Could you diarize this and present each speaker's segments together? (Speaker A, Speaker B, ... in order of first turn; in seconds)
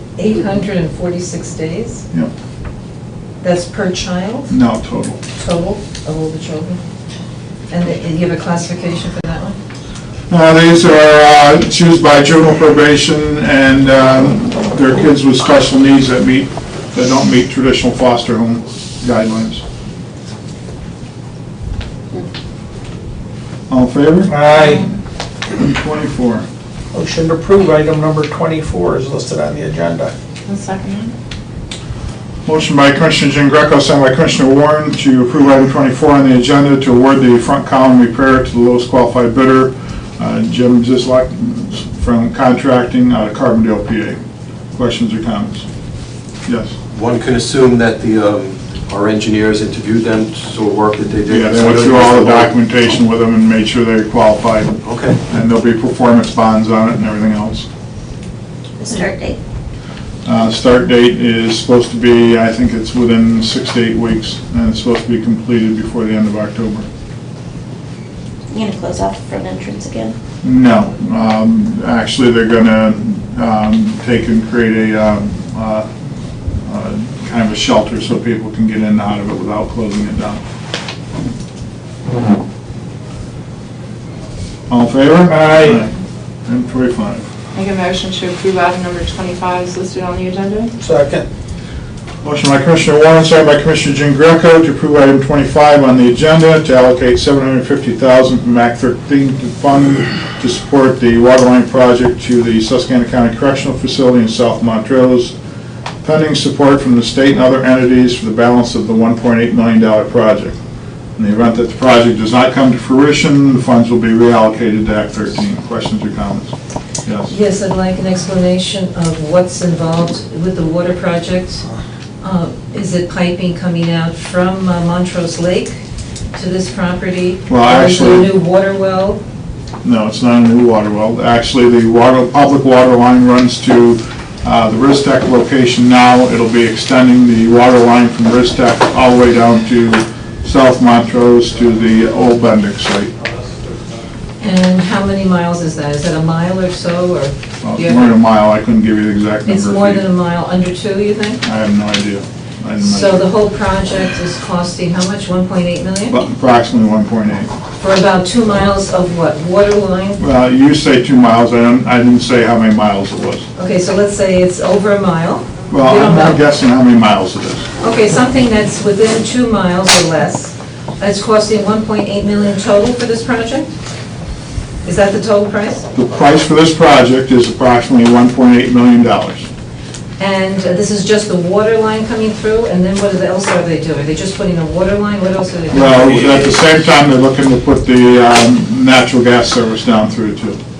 Speaker A: 0.2-2.0, 3.4-4.5, 5.3-6.8, 7.7-9.6, 117.3-121.6, 122.2-125.8, 126.3-129.2, 144.4-148.1, 149.4-151.4, 152.8-156.2, 157.8-160.2, 163.6-166.4, 167.8-173.7, 174.8-175.9, 180.2-186.5
Speaker B: 4.5-5.2, 10.3-19.6, 23.7-24.3, 25.6-26.4, 32.5-44.2, 44.7-45.6, 46.5-46.8, 51.3-57.7, 60.2-66.8, 70.4-75.9, 76.6-80.4, 84.7-85.9, 86.5-87.3, 92.2-105.3, 106.0-110.6, 111.2-116.5, 117.0-117.3, 127.5-128.3, 129.8-143.1, 147.6-150.0, 151.4-153.3, 156.1-157.5, 160.2-163.5, 165.7-167.7, 175.9-179.5, 185.7-190.6
Speaker C: 24.2-24.9, 26.9-30.1, 85.2-85.8, 90.8-91.2
Speaker D: 30.5-31.1, 87.5-90.7
Speaker E: 46.9-52.6, 54.8-55.2
Speaker F: 58.8-59.4, 68.5-70.2